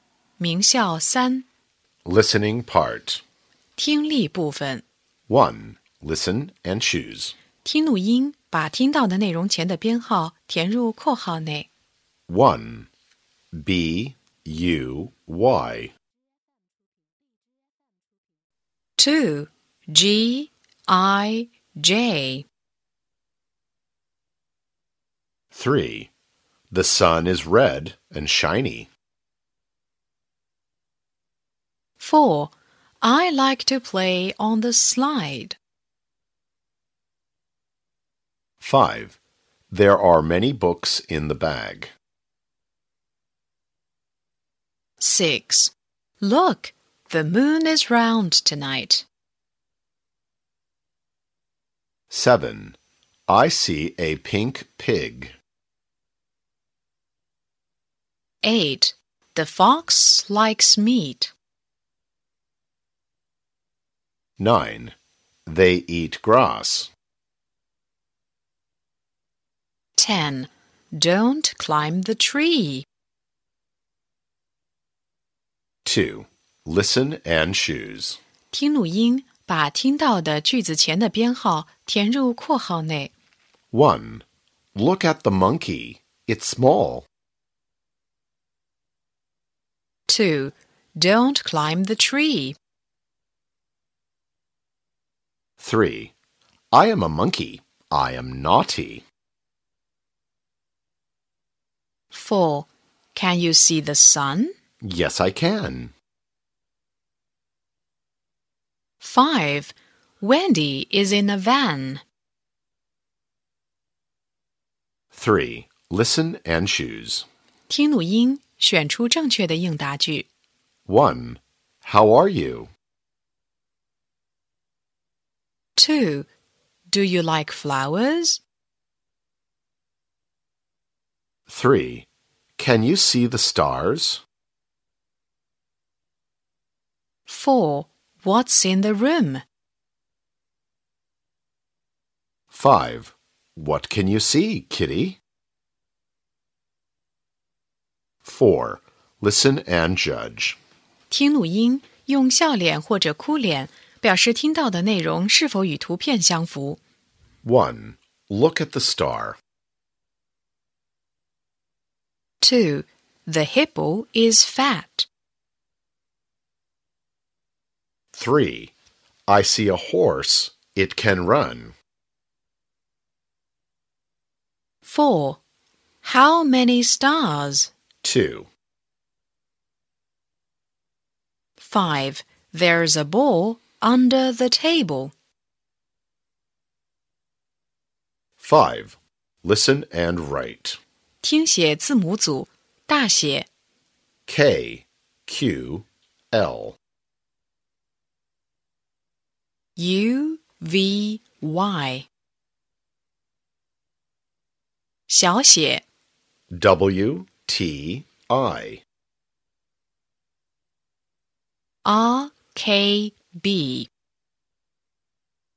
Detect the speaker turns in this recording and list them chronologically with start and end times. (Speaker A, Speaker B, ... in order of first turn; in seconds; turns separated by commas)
Speaker A: 0.4-1.5, Speaker B: 2.0-3.2, Speaker A: 3.8-4.8, Speaker B: 5.3-7.4, Speaker A: 7.6-11.7, Speaker B: 12.3-12.9, Speaker B: 13.5-15.9, Speaker A: 19.0-22.5, Speaker B: 25.5-26.1, Speaker B: 26.7-28.9, Speaker A: 32.0-35.6, Speaker B: 38.6-39.2, Speaker B: 39.7-41.9, Speaker A: 45.0-49.1, Speaker B: 52.1-52.8, Speaker B: 53.3-55.3, Speaker A: 58.4-61.3, Speaker B: 64.4-65.0, Speaker B: 65.5-66.9, Speaker A: 70.0-72.9, Speaker B: 75.8-78.2, Speaker A: 78.5-83.1, Speaker B: 83.7-84.2, Speaker B: 84.8-87.1, Speaker A: 90.1-92.6, Speaker B: 95.6-96.1, Speaker B: 96.7-99.0, Speaker A: 102.1-104.5, Speaker B: 104.8-105.9, Speaker A: 109.0-112.0, Speaker B: 115.1-117.3, Speaker A: 117.7-120.3, Speaker B: 120.9-122.7, Speaker A: 125.8-126.3, Speaker A: 126.9-128.4, Speaker B: 131.5-134.2, Speaker A: 137.3-139.4, Speaker B: 142.5-145.2, Speaker B: 148.2-150.6, Speaker A: 151.1-156.8, Speaker B: 157.4-159.4, Speaker A: 162.4-165.1, Speaker B: 168.1-168.7, Speaker B: 169.3-171.8, Speaker A: 174.8-175.4, Speaker A: 176.0-177.7, Speaker B: 178.0-178.5, Speaker A: 181.6-185.1, Speaker B: 188.4-190.8, Speaker A: 191.2-193.5, Speaker B: 194.3-196.8, Speaker A: 199.8-202.1, Speaker A: 205.1-205.8, Speaker B: 206.5-208.8, Speaker A: 211.8-213.9